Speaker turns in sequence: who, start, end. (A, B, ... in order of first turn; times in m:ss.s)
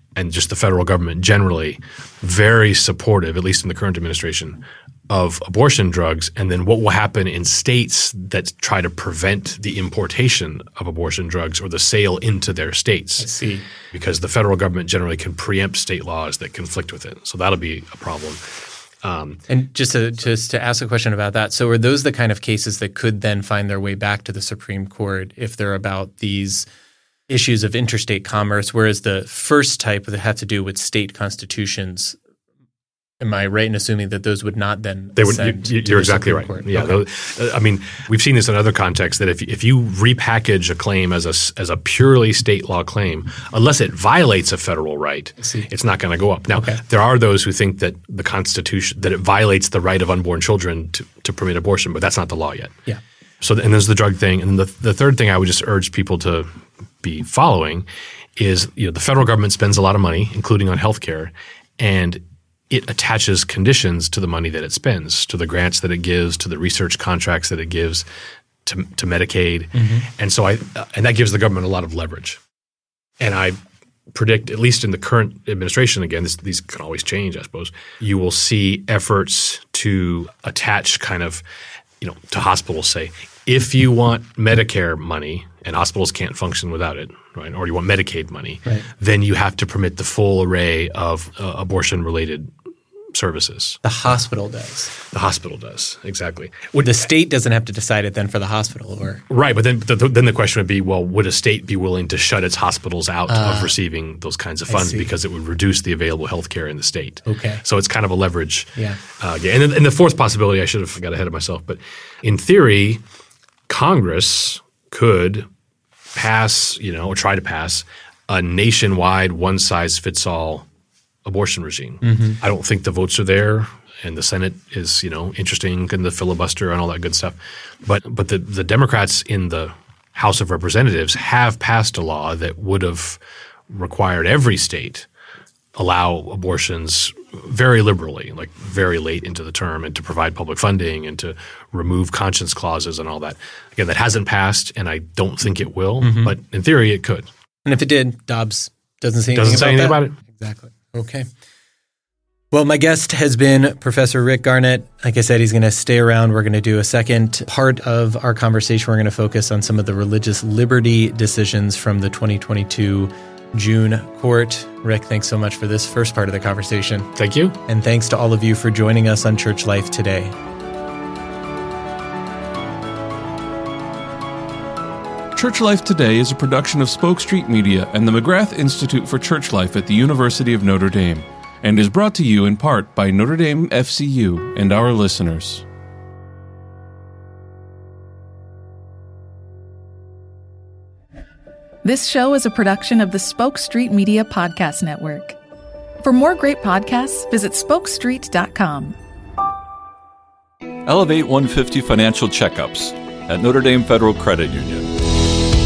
0:00.2-0:13.3 A
0:13.2-0:13.7 B
0:13.9-0:19.4 A
0:19.5-0:26.7 B
0:27.3-0:32.2 B
0:33.2-0:37.0 B
0:35.2-0:52.8 A
0:45.4-0:45.7 B
0:46.5-0:46.8 B
0:53.4-1:08.1 A
1:08.6-1:12.4 A
1:09.8-1:10.1 B
1:13.2-1:13.6 A
1:14.1-1:21.4 A
1:22.0-1:32.5 A
1:33.1-1:33.8 A
1:33.8-1:35.0 B
1:35.0-1:37.0 A
1:36.8-1:39.2 B
1:39.3-1:53.0 A
1:43.3-1:43.7 B
1:44.7-1:45.1 B
1:47.3-1:47.6 B
1:53.7-1:55.5 A
1:56.1-2:00.7 A
2:01.2-2:15.1 A
2:02.0-2:02.4 B
2:15.8-2:27.3 A
2:26.0-2:26.4 B
2:27.6-2:31.3 B
2:29.4-2:30.2 A
2:32.5-2:47.1 B
2:47.2-2:47.6 A
2:47.7-2:50.4 B
2:55.3-3:05.6 C
3:11.8-3:15.4 D
3:16.0-3:19.0 D
3:20.9-3:25.0 E